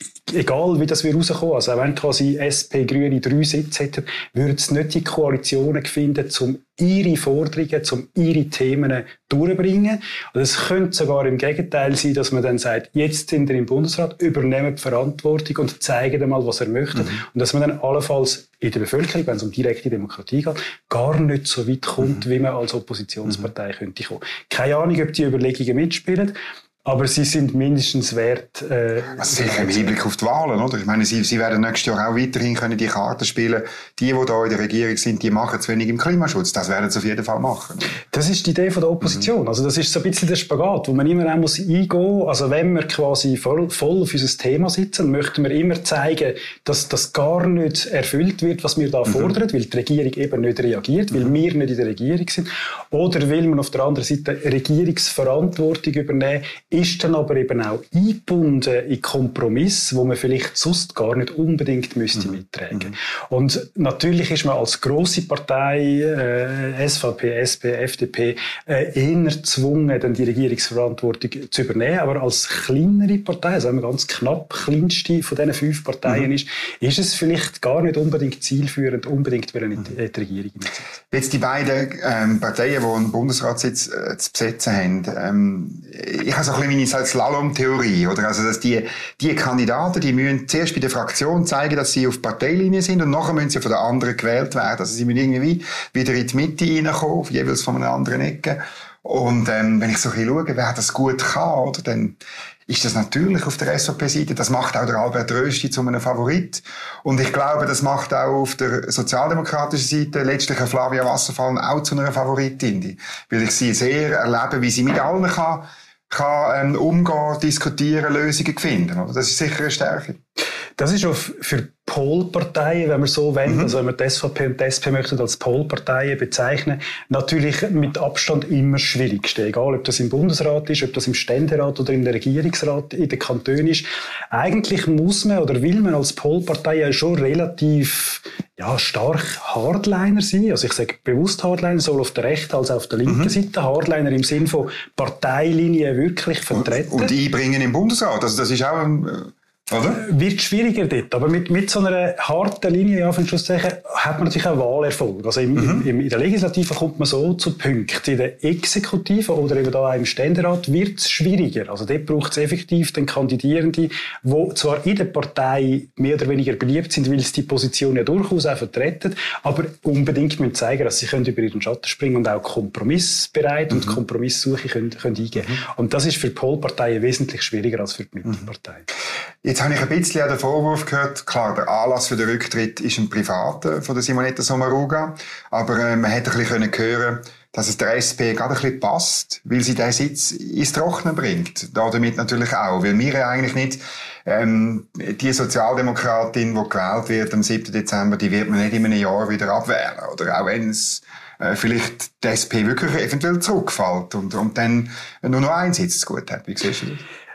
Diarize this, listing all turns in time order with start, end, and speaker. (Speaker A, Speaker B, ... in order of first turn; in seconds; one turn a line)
Speaker A: 0.3-29.9
Speaker B: 29.2-38.0
Speaker A: 38.1-80.9
Speaker B: 81.1-102.2
Speaker B: 102.7-120.2
Speaker A: 120.8-147.1
Speaker B: 146.5-150.0
Speaker A: 149.9-178.9
Speaker B: 179.4-207.0